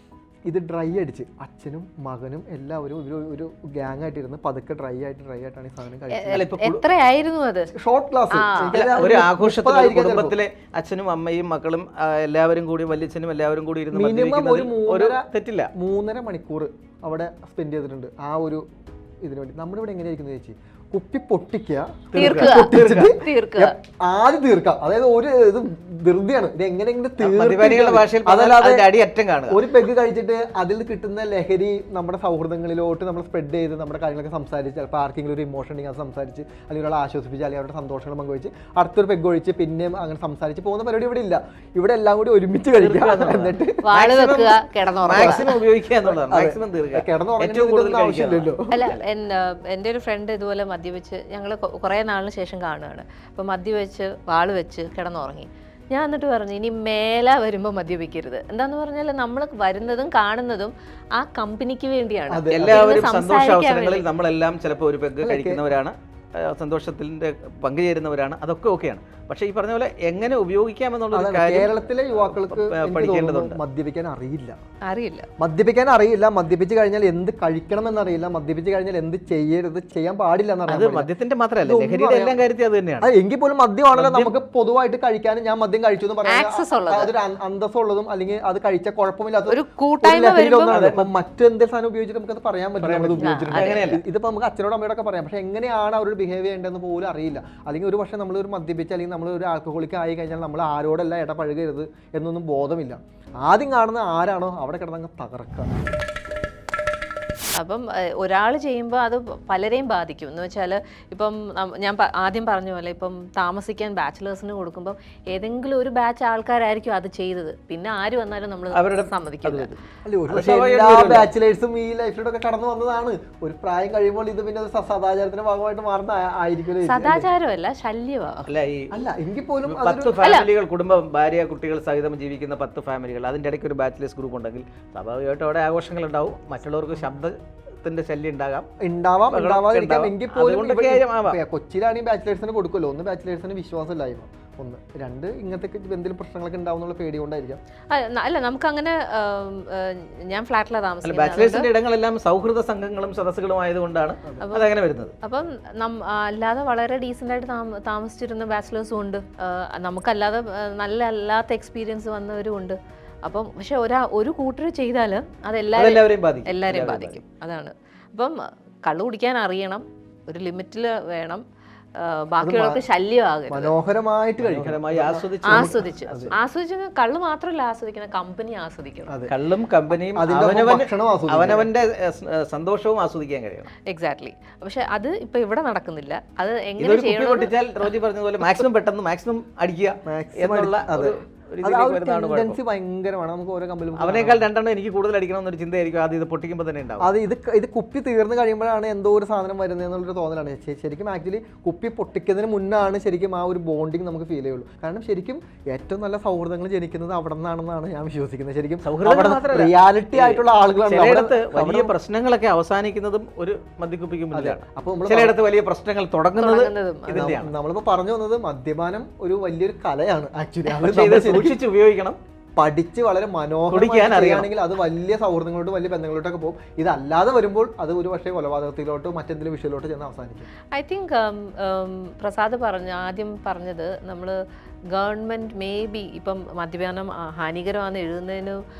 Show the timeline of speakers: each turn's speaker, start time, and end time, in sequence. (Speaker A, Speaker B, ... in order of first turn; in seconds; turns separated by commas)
Speaker A: 0.5-6.5, Speaker B: 6.1-7.7, Speaker C: 6.3-6.8, Speaker A: 7.7-10.4, Speaker B: 8.3-8.9, Speaker C: 8.7-15.7, Speaker A: 13.9-18.6, Speaker A: 19.2-28.9, Speaker C: 22.1-23.1, Speaker B: 22.1-23.8, Speaker C: 27.2-29.6, Speaker A: 29.5-44.5, Speaker C: 42.8-44.3, Speaker B: 43.8-45.5, Speaker C: 45.0-49.0, Speaker A: 45.1-45.5, Speaker A: 46.0-48.7, Speaker B: 48.7-64.0, Speaker A: 62.3-62.9, Speaker C: 62.5-73.6, Speaker A: 65.2-65.6, Speaker A: 71.1-74.5, Speaker B: 74.9-75.3, Speaker A: 75.4-81.1, Speaker C: 80.7-83.1, Speaker A: 81.6-82.4, Speaker A: 83.0-105.7, Speaker C: 83.9-84.3, Speaker B: 86.3-87.1, Speaker B: 89.5-90.8, Speaker C: 90.7-91.1, Speaker C: 92.8-94.0, Speaker B: 93.2-94.0, Speaker B: 107.6-119.8, Speaker C: 118.7-119.7, Speaker A: 120.0-127.3, Speaker C: 120.3-121.3, Speaker B: 126.8-128.5, Speaker C: 128.5-128.9, Speaker A: 128.9-130.2, Speaker C: 129.6-138.7, Speaker B: 130.2-130.5, Speaker A: 138.8-147.6, Speaker C: 139.3-141.4, Speaker B: 147.9-151.7, Speaker C: 151.0-155.1, Speaker B: 154.4-171.4, Speaker C: 165.7-167.2, Speaker B: 172.0-173.7, Speaker A: 172.4-172.8, Speaker A: 173.5-176.3, Speaker C: 174.4-176.3, Speaker B: 175.4-179.1, Speaker C: 179.3-183.7, Speaker A: 180.1-181.7, Speaker B: 183.9-187.5, Speaker C: 186.8-192.6, Speaker A: 190.0-194.5, Speaker C: 193.9-197.1, Speaker A: 197.0-211.9, Speaker C: 208.8-217.5, Speaker A: 214.3-215.3, Speaker B: 216.3-217.3, Speaker A: 217.1-221.6, Speaker C: 220.7-222.2, Speaker A: 222.6-230.5, Speaker C: 223.7-224.5, Speaker B: 230.7-234.3, Speaker B: 234.9-238.6